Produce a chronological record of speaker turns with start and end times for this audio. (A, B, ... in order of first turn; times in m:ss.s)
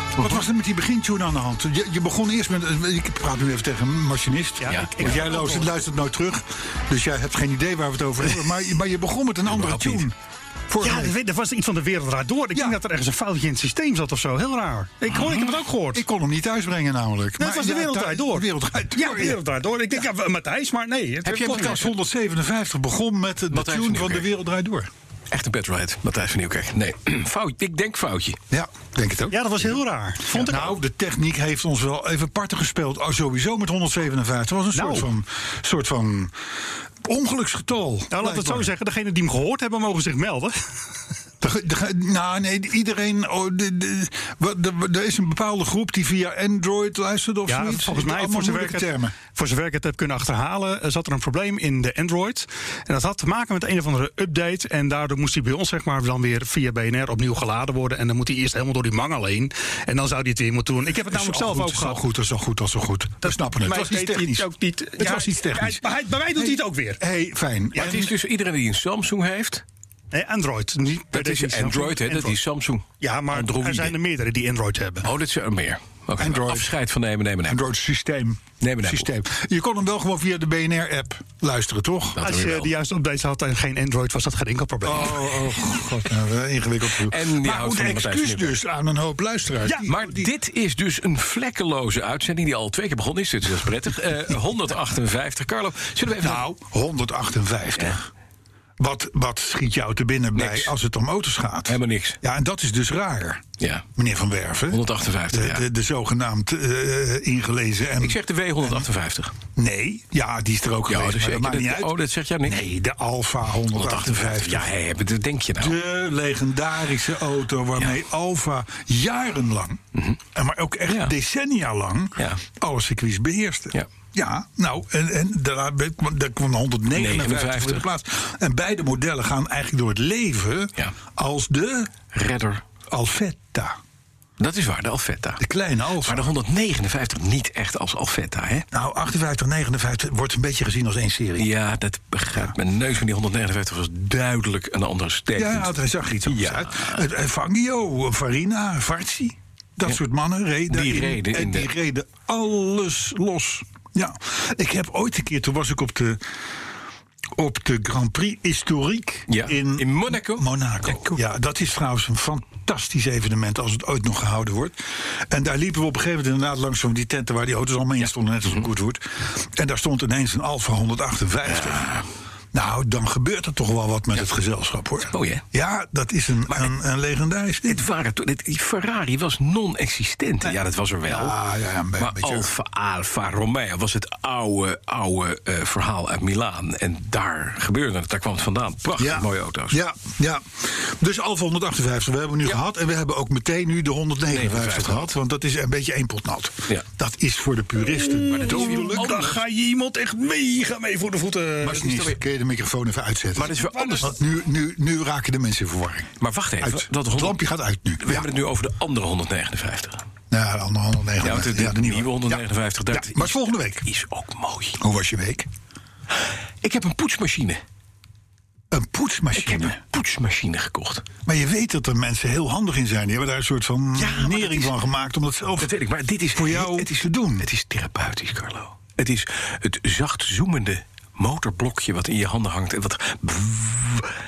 0:00.2-0:10.2 A
0:00.2-0:00.4 B
0:04.6-0:05.7 C
0:04.7-0:05.2 B
0:09.5-0:10.1 B
0:10.7-0:11.2 A
0:10.8-0:16.0 C
0:12.5-0:12.8 A
0:15.1-0:15.5 B
0:15.9-0:19.4 A
0:17.4-0:21.9 C
0:21.2-0:21.9 B
0:21.3-0:24.9 A
0:23.5-0:24.3 B
0:25.3-0:28.4 B
0:28.5-0:29.7 A
0:29.3-0:30.8 C
0:30.3-0:36.3 A
0:34.7-0:35.1 C
0:37.0-0:38.7 A
0:38.1-0:40.6 C
0:41.4-0:49.2 A
0:47.5-1:02.0 C
1:01.1-1:05.8 A
1:03.2-1:07.0 C
1:06.4-1:08.1 A
1:07.8-1:09.6 B
1:10.1-1:12.4 C
1:11.1-1:14.0 B
1:13.0-1:15.1 C
1:15.0-1:17.6 B
1:16.2-1:16.8 A
1:17.5-1:22.2 A
1:18.6-1:19.1 B
1:22.2-1:22.7 B
1:22.2-1:25.2 C
1:24.8-1:30.3 A
1:26.9-1:28.6 B
1:29.9-1:36.4 B
1:36.2-1:38.1 A
1:38.8-1:43.4 A
1:40.4-1:40.7 B
1:41.7-1:42.2 B
1:43.6-1:43.9 B
1:44.0-1:48.9 A
1:44.7-1:45.6 B
1:48.0-1:49.3 B
1:49.6-1:51.9 A
1:50.9-1:52.6 B
1:52.5-1:54.7 A
1:53.7-1:55.8 B
1:55.6-1:59.8 A
2:00.3-2:11.9 A
2:00.9-2:01.1 B
2:06.9-2:07.8 B
2:12.1-2:12.6 B
2:12.9-2:13.8 A
2:14.4-2:15.4 B
2:15.4-2:16.3 A
2:16.0-2:18.7 B
2:18.7-2:21.5 A
2:21.4-2:25.7 B
2:25.4-2:36.2 A
2:26.2-2:27.0 B
2:30.7-2:31.7 B
2:37.4-2:51.9 A
2:39.3-2:41.2 B
2:51.5-2:52.1 B
2:52.5-2:57.9 A
2:55.1-2:55.4 B
2:57.7-3:01.4 B
3:00.4-3:02.5 A
3:02.0-3:09.8 B
3:09.0-3:19.2 A
3:14.3-3:15.1 B
3:17.8-3:22.0 C
3:18.3-3:19.4 B
3:21.6-3:28.3 A
3:21.7-3:22.1 B
3:23.4-3:24.2 B
3:23.6-3:24.1 C
3:26.2-3:27.5 B
3:28.0-3:30.0 B
3:30.3-3:33.8 A
3:31.2-3:34.8 B
3:34.8-3:35.5 A
3:36.6-3:37.6 B
3:38.7-3:39.8 A
3:39.4-3:41.1 B
3:41.3-3:45.8 A
3:44.0-3:44.8 B
3:45.6-3:54.1 B
3:46.3-3:47.5 A